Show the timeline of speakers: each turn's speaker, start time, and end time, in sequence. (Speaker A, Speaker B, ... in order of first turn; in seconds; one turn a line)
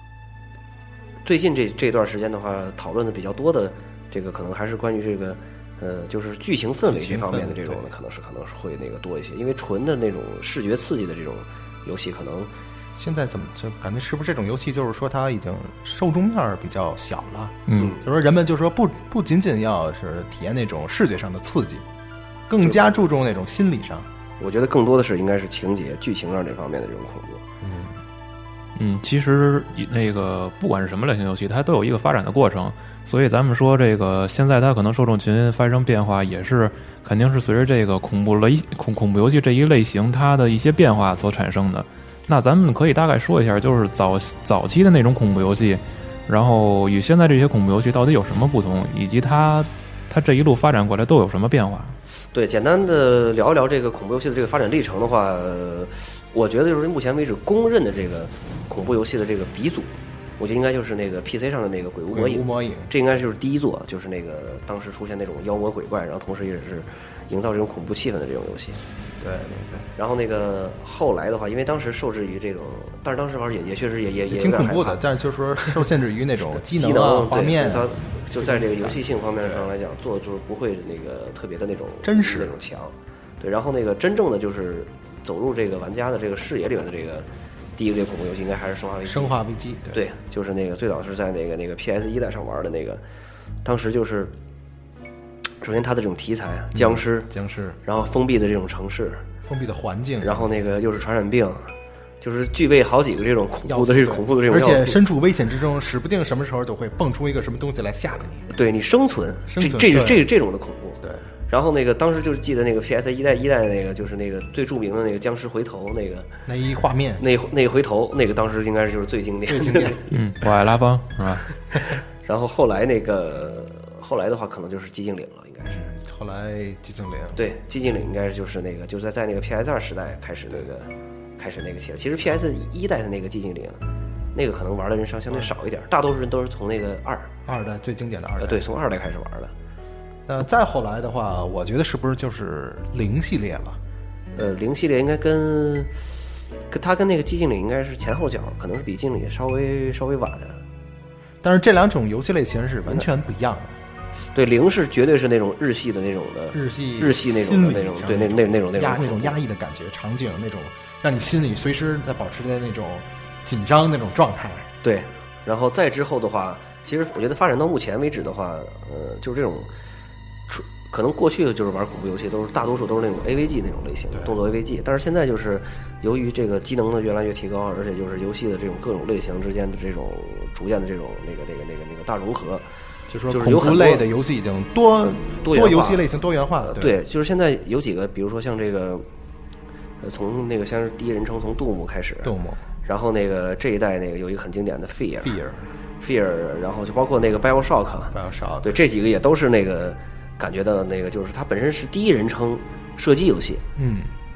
Speaker A: 1.2-12.5
Speaker B: 6.8-7.9
Speaker B: 12.9-21.8
Speaker C: 17.7-17.9
Speaker A: 17.8-18.0
Speaker B: 22.5-24.1
Speaker A: 24.4-27.4
Speaker B: 27.6-27.9
Speaker C: 28.8-52.0
Speaker A: 52.3-68.8
Speaker B: 62.1-62.9
Speaker B: 69.2-69.9
Speaker A: 70.0-75.0
Speaker B: 74.3-79.7
Speaker A: 76.7-89.4
Speaker B: 82.0-82.5
Speaker B: 89.0-90.0
Speaker A: 89.9-93.0
Speaker A: 93.6-94.3
Speaker A: 95.6-97.3
Speaker B: 96.7-97.8
Speaker A: 97.8-99.2
Speaker B: 99.4-100.5
Speaker A: 100.2-101.7
Speaker A: 102.2-105.0
Speaker B: 103.7-108.5
Speaker A: 108.5-116.3
Speaker B: 109.5-110.2
Speaker B: 116.5-117.2
Speaker A: 117.2-120.1
Speaker B: 119.5-120.0
Speaker C: 120.1-121.5
Speaker A: 122.2-125.8
Speaker B: 125.7-127.4
Speaker A: 127.3-133.8
Speaker A: 134.3-137.3
Speaker B: 137.5-138.6
Speaker A: 138.4-139.5
Speaker B: 140.3-143.8
Speaker A: 144.3-145.9
Speaker A: 146.7-150.6
Speaker B: 151.4-153.7
Speaker A: 154.3-159.4
Speaker B: 156.5-164.7
Speaker A: 164.8-169.7
Speaker A: 170.5-182.6
Speaker B: 183.1-186.9
Speaker A: 183.3-184.1
Speaker A: 185.0-186.1
Speaker A: 186.6-189.1
Speaker A: 190.0-192.3
Speaker B: 192.2-192.6
Speaker A: 192.8-195.3
Speaker B: 195.2-195.7
Speaker A: 196.0-203.6
Speaker B: 198.1-198.8
Speaker B: 203.8-204.1